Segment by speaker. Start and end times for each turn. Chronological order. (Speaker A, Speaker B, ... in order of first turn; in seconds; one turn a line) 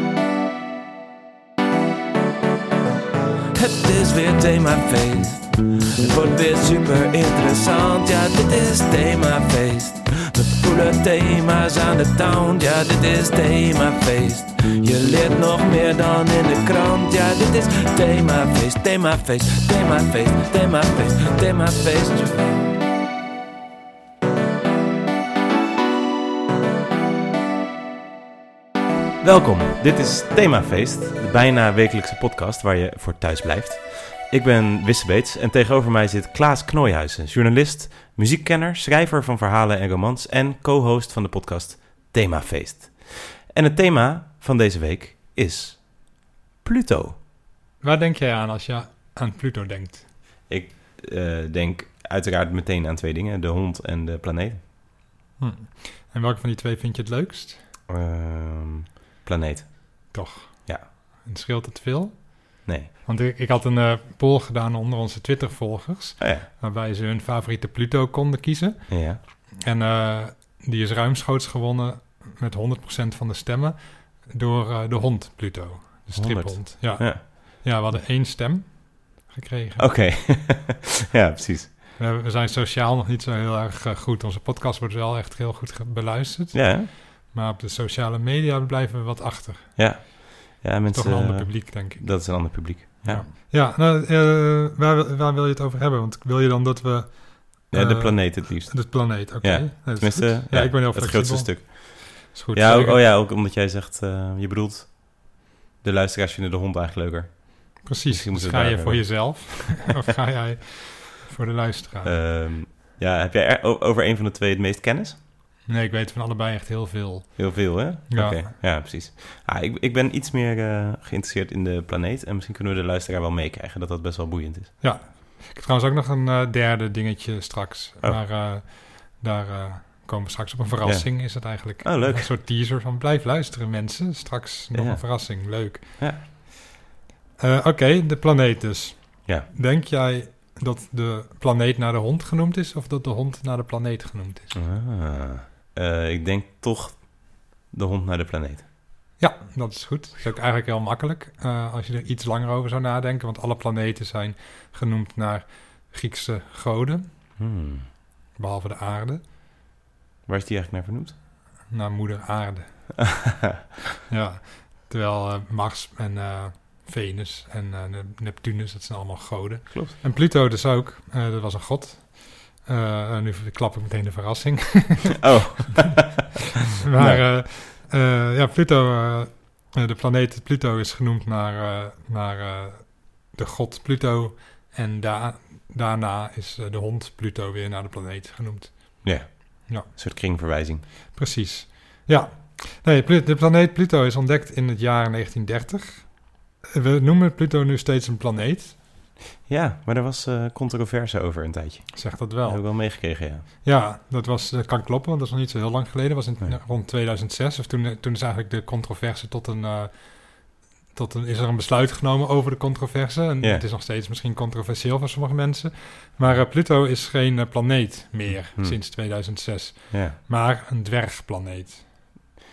Speaker A: 3.5-22.6
Speaker B: 29.2-47.1
Speaker C: 47.8-50.1
Speaker B: 50.5-54.6
Speaker C: 55.4-57.6
Speaker B: 57.9-60.9
Speaker C: 60.1-80.1
Speaker B: 66.2-66.5
Speaker B: 68.9-69.2
Speaker B: 76.1-77.2
Speaker B: 79.8-81.7
Speaker C: 82.0-90.1
Speaker B: 86.5-86.9
Speaker B: 89.8-93.3
Speaker C: 90.9-103.0
Speaker B: 97.7-109.8
Speaker C: 107.8-112.2
Speaker B: 112.0-115.2
Speaker C: 115.7-118.5
Speaker B: 117.4-124.8
Speaker C: 124.8-136.3
Speaker B: 130.8-132.3
Speaker B: 134.7-136.2
Speaker C: 137.4-144.7
Speaker B: 144.5-148.6
Speaker C: 149.2-157.4
Speaker B: 157.4-157.8
Speaker C: 158.3-159.3
Speaker B: 160.3-161.2
Speaker C: 161.7-163.2
Speaker C: 164.1-175.3
Speaker B: 175.2-176.3
Speaker C: 176.8-189.9
Speaker B: 176.9-177.4
Speaker B: 189.0-190.8
Speaker C: 191.2-198.8
Speaker B: 199.4-203.4
Speaker C: 201.9-221.8
Speaker B: 218.3-219.1
Speaker B: 219.9-220.2